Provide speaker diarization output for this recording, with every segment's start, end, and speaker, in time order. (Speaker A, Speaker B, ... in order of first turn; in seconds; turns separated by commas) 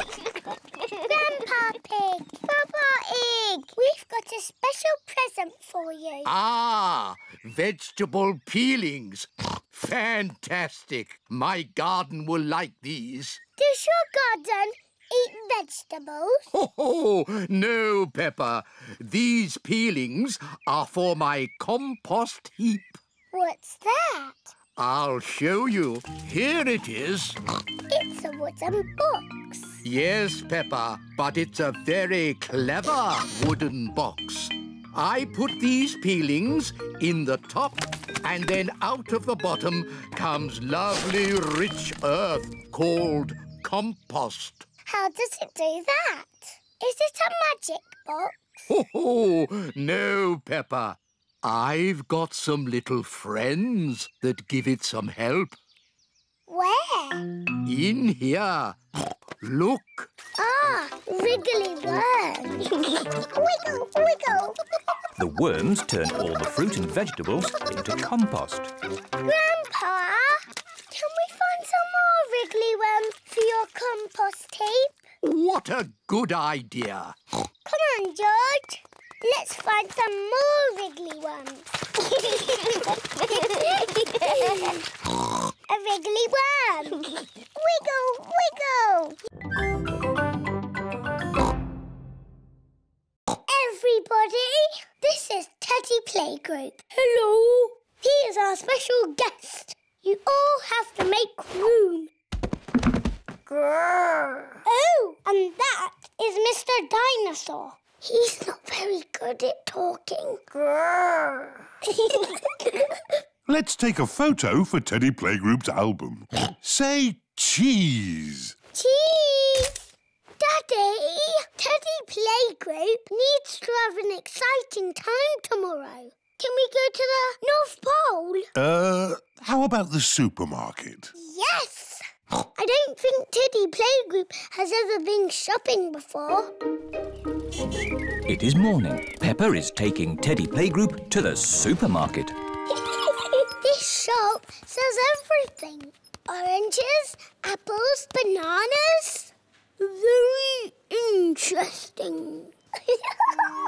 Speaker A: 1.1-6.3, Speaker B: 6.2-13.4, Speaker A: 13.6-16.5, Speaker B: 16.5-23.0, Speaker A: 23.3-24.5, Speaker B: 24.8-27.4, Speaker A: 27.9-29.8, Speaker B: 29.8-44.6, Speaker A: 44.9-48.7, Speaker B: 48.7-55.6, Speaker A: 56.5-57.3, Speaker B: 57.6-58.8, Speaker B: 59.4-60.1, Speaker A: 60.4-64.6, Speaker C: 65.2-68.7, Speaker A: 69.2-75.0, Speaker B: 75.2-77.2, Speaker A: 77.6-84.9, Speaker A: 85.7-89.2, Speaker A: 93.5-97.0, Speaker A: 97.9-102.1, Speaker A: 104.6-110.6, Speaker A: 111.9-112.9, Speaker D: 113.5-118.5, Speaker A: 118.7-119.8, Speaker A: 120.4-128.5, Speaker D: 128.6-131.1, Speaker A: 131.2-132.0, Speaker A: 132.5-136.5, Speaker C: 138.3-142.3, Speaker A: 142.7-153.0